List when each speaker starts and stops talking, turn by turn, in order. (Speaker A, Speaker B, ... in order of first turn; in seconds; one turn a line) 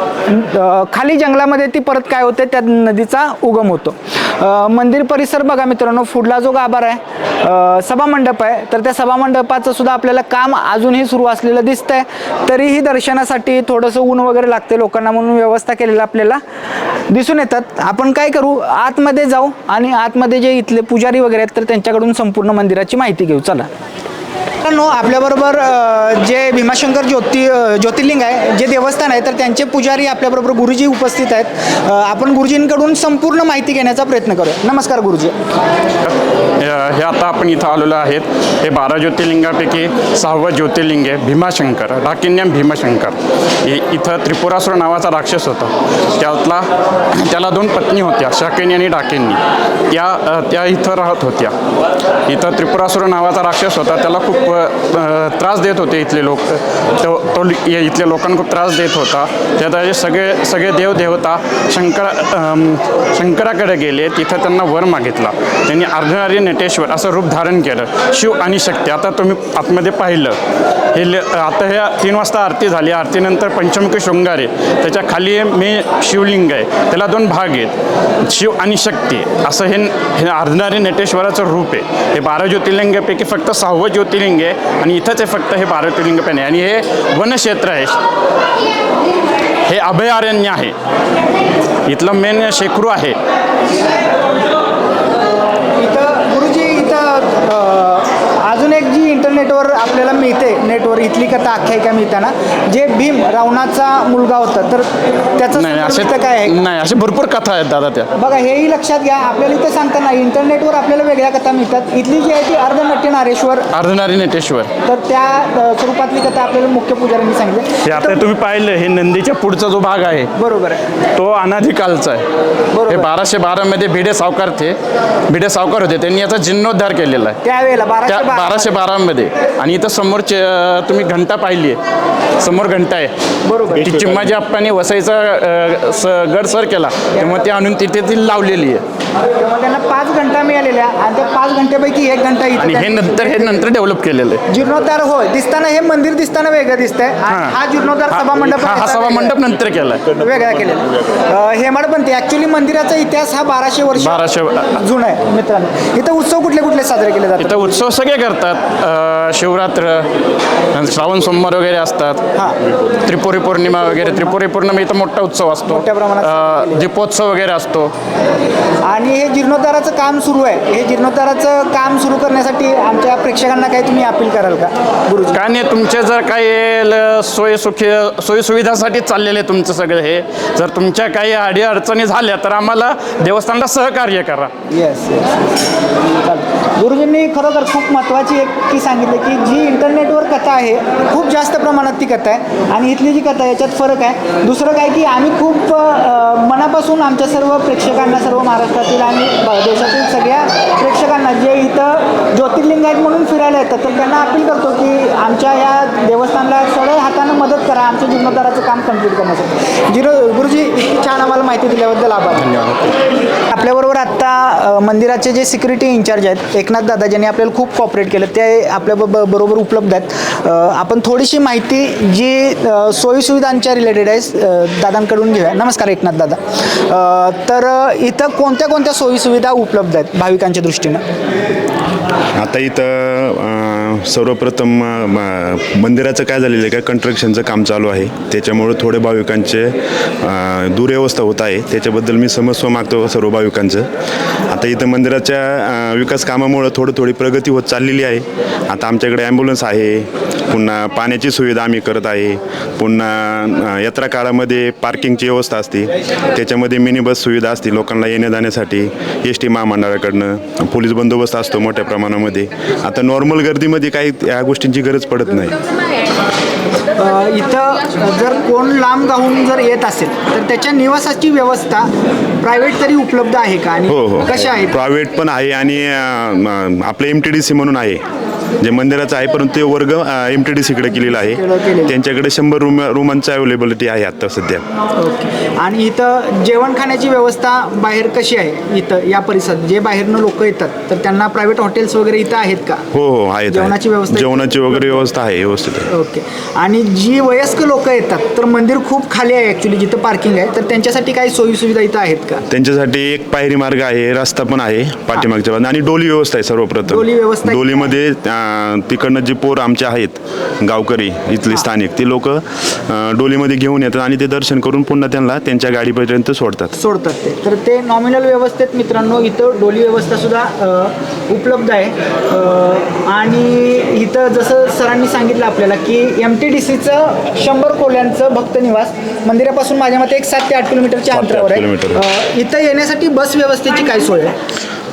Speaker A: 0.2-16.4
Speaker A: 17.1-23.7
Speaker A: 24.6-35.4
Speaker B: 36.0-51.5
Speaker B: 52.2-70.4
Speaker B: 70.9-88.0
Speaker B: 89.7-90.7
Speaker B: 91.8-93.2
Speaker A: 95.8-106.5
Speaker B: 105.5-108.1
Speaker A: 108.1-113.7
Speaker B: 113.7-114.7
Speaker A: 114.8-118.2
Speaker B: 117.8-120.3
Speaker A: 120.3-120.8
Speaker B: 121.1-122.2
Speaker A: 122.7-123.1
Speaker B: 122.9-124.8
Speaker B: 125.3-127.4
Speaker A: 127.4-128.8
Speaker B: 128.1-131.8
Speaker B: 132.4-133.1
Speaker A: 133.4-134.2
Speaker B: 133.7-138.8
Speaker A: 137.2-137.4
Speaker A: 139.3-143.7
Speaker B: 142.6-144.4
Speaker A: 144.5-149.3
Speaker B: 147.3-147.6
Speaker B: 148.1-150.2
Speaker A: 150.2-157.7
Speaker B: 154.0-154.8
Speaker B: 157.4-160.1
Speaker B: 160.7-162.2
Speaker B: 162.8-167.9
Speaker A: 165.7-166.8
Speaker A: 168.8-175.4
Speaker B: 175.3-184.5
Speaker A: 184.7-185.5
Speaker A: 186.2-212.5
Speaker B: 212.5-212.9
Speaker A: 213.3-231.0
Speaker C: 232.3-243.9
Speaker C: 244.5-265.6
Speaker A: 266.9-274.8
Speaker C: 273.9-278.0
Speaker C: 278.6-284.6
Speaker A: 281.1-281.9
Speaker A: 284.9-292.8
Speaker C: 292.9-295.9
Speaker A: 293.5-295.0
Speaker A: 295.9-302.4
Speaker C: 302.5-316.7
Speaker A: 306.9-307.9
Speaker A: 316.8-334.4
Speaker C: 331.1-332.0